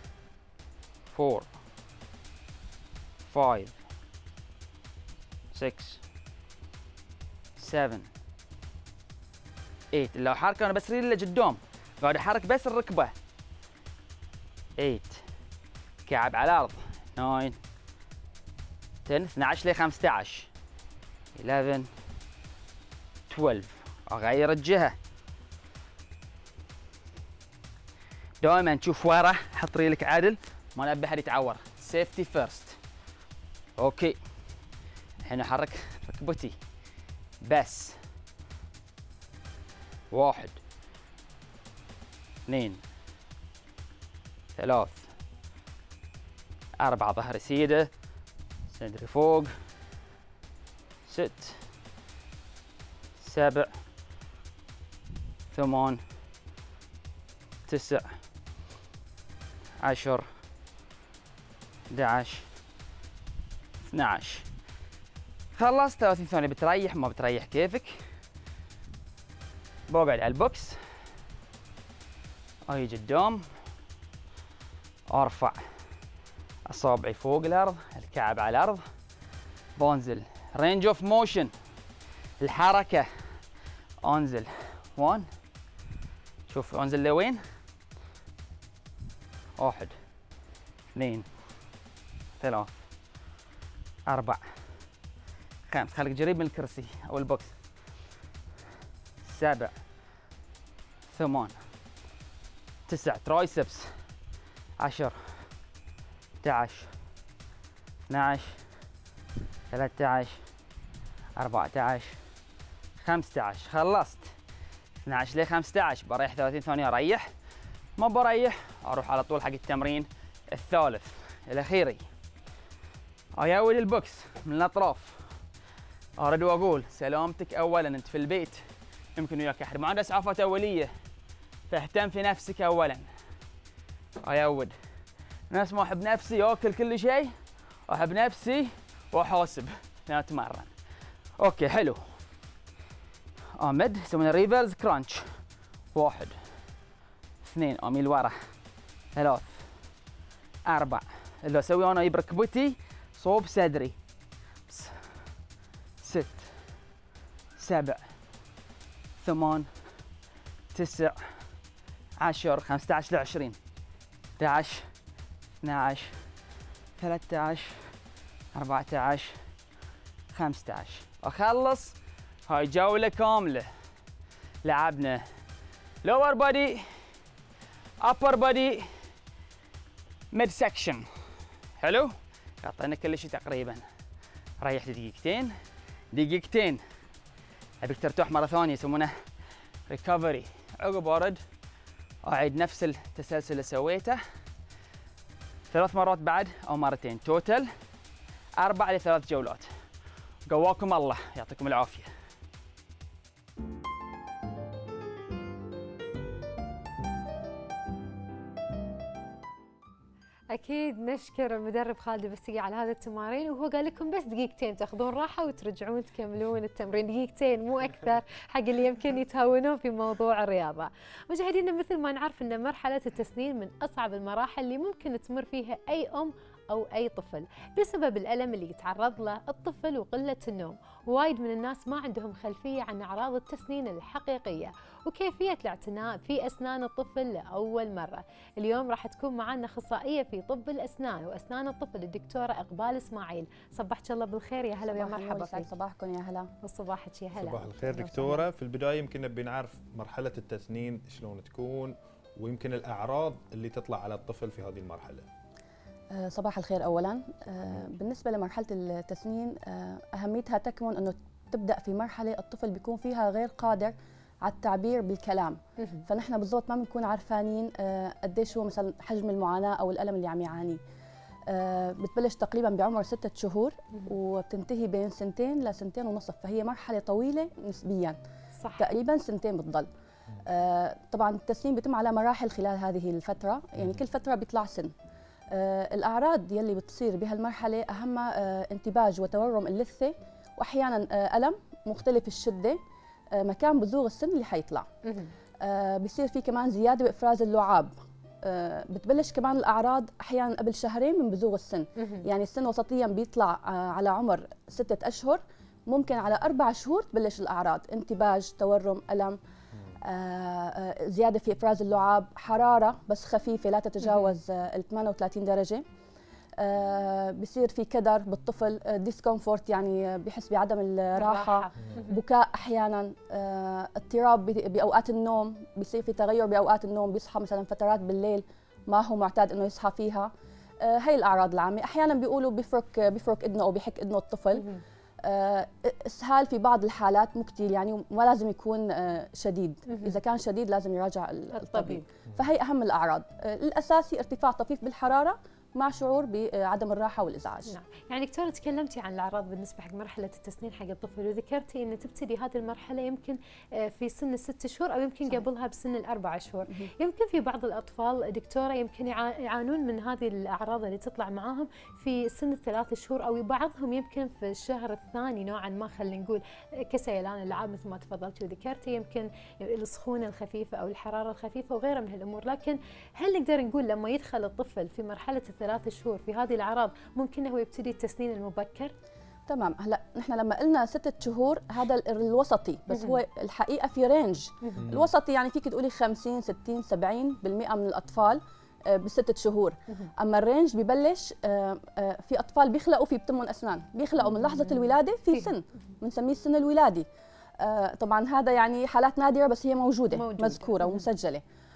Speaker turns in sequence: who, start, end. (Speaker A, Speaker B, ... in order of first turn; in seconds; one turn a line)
Speaker A: 1.1-1.5
Speaker A: 3.2-3.8
Speaker A: 5.5-6.0
Speaker A: 7.6-8.1
Speaker A: 9.9-13.1
Speaker A: 14.8-15.2
Speaker A: 16.1-17.6
Speaker A: 19.1-20.5
Speaker A: 21.4-21.9
Speaker A: 23.3-24.9
Speaker A: 28.4-32.8
Speaker A: 33.8-34.2
Speaker A: 35.2-36.6
Speaker A: 37.4-38.0
Speaker A: 40.1-40.6
Speaker A: 42.5-42.8
Speaker A: 44.5-45.1
Speaker A: 46.8-47.9
Speaker A: 48.7-49.5
Speaker A: 51.1-51.6
Speaker A: 53.2-53.7
Speaker A: 55.5-56.0
Speaker A: 57.7-58.1
Speaker A: 59.8-60.3
Speaker A: 61.9-62.5
Speaker A: 63.9-64.5
Speaker A: 65.5-68.0
Speaker A: 69.9-70.8
Speaker A: 72.7-73.5
Speaker A: 75.1-75.6
Speaker A: 76.7-78.8
Speaker A: 79.8-81.5
Speaker A: 82.4-83.1
Speaker A: 84.0-85.3
Speaker A: 86.5-87.4
Speaker A: 89.6-90.0
Speaker A: 90.9-91.2
Speaker A: 92.4-92.8
Speaker A: 94.1-94.4
Speaker A: 95.7-97.5
Speaker A: 99.2-99.8
Speaker A: 101.1-101.6
Speaker A: 102.9-103.9
Speaker A: 104.8-105.4
Speaker A: 106.4-106.9
Speaker A: 108.1-108.6
Speaker A: 109.7-110.4
Speaker A: 111.4-112.2
Speaker A: 113.0-114.3
Speaker A: 115.0-117.3
Speaker A: 118.0-122.0
Speaker A: 123.4-125.3
Speaker A: 126.2-128.6
Speaker A: 129.2-130.9
Speaker A: 131.7-133.1
Speaker A: 134.2-134.8
Speaker A: 135.5-137.3
Speaker A: 137.9-140.7
Speaker A: 141.4-142.2
Speaker A: 143.6-145.3
Speaker A: 145.9-146.4
Speaker A: 147.4-148.3
Speaker A: 149.1-149.7
Speaker A: 150.7-153.9
Speaker A: 154.7-155.0
Speaker A: 156.0-156.5
Speaker A: 157.6-158.0
Speaker A: 159.2-159.7
Speaker A: 160.7-161.2
Speaker A: 162.2-163.6
Speaker A: 164.4-164.9
Speaker A: 165.6-166.2
Speaker A: 167.0-167.9
Speaker A: 168.5-169.3
Speaker A: 170.3-171.9
Speaker A: 172.5-173.7
Speaker A: 174.6-175.2
Speaker A: 176.0-176.9
Speaker A: 178.0-178.9
Speaker A: 180.3-181.0
Speaker A: 181.8-183.8
Speaker A: 184.6-185.5
Speaker A: 186.1-186.8
Speaker A: 187.8-189.1
Speaker A: 189.9-191.4
Speaker A: 192.2-194.2
Speaker A: 195.7-197.7
Speaker A: 198.6-199.7
Speaker A: 200.5-202.1
Speaker B: 210.5-245.7
Speaker C: 244.9-246.5
Speaker B: 246.6-248.4
Speaker D: 247.4-255.2
Speaker C: 256.1-270.8
Speaker B: 265.8-266.1
Speaker C: 271.5-278.2
Speaker B: 278.6-278.9
Speaker C: 278.8-279.9
Speaker C: 280.4-284.9
Speaker C: 285.5-292.8
Speaker C: 293.3-294.9
Speaker B: 295.0-295.3
Speaker C: 295.6-297.9
Speaker C: 298.4-309.4
Speaker B: 302.0-302.3
Speaker C: 310.0-315.8
Speaker B: 314.0-314.3
Speaker C: 316.6-334.7
Speaker B: 321.1-322.2
Speaker B: 334.5-334.8
Speaker C: 335.2-347.7
Speaker B: 339.9-340.2
Speaker B: 341.5-342.0
Speaker B: 347.7-378.9
Speaker C: 379.5-397.1
Speaker B: 382.9-383.2
Speaker D: 384.8-385.1
Speaker B: 394.2-395.5
Speaker C: 397.6-401.4
Speaker B: 400.1-401.1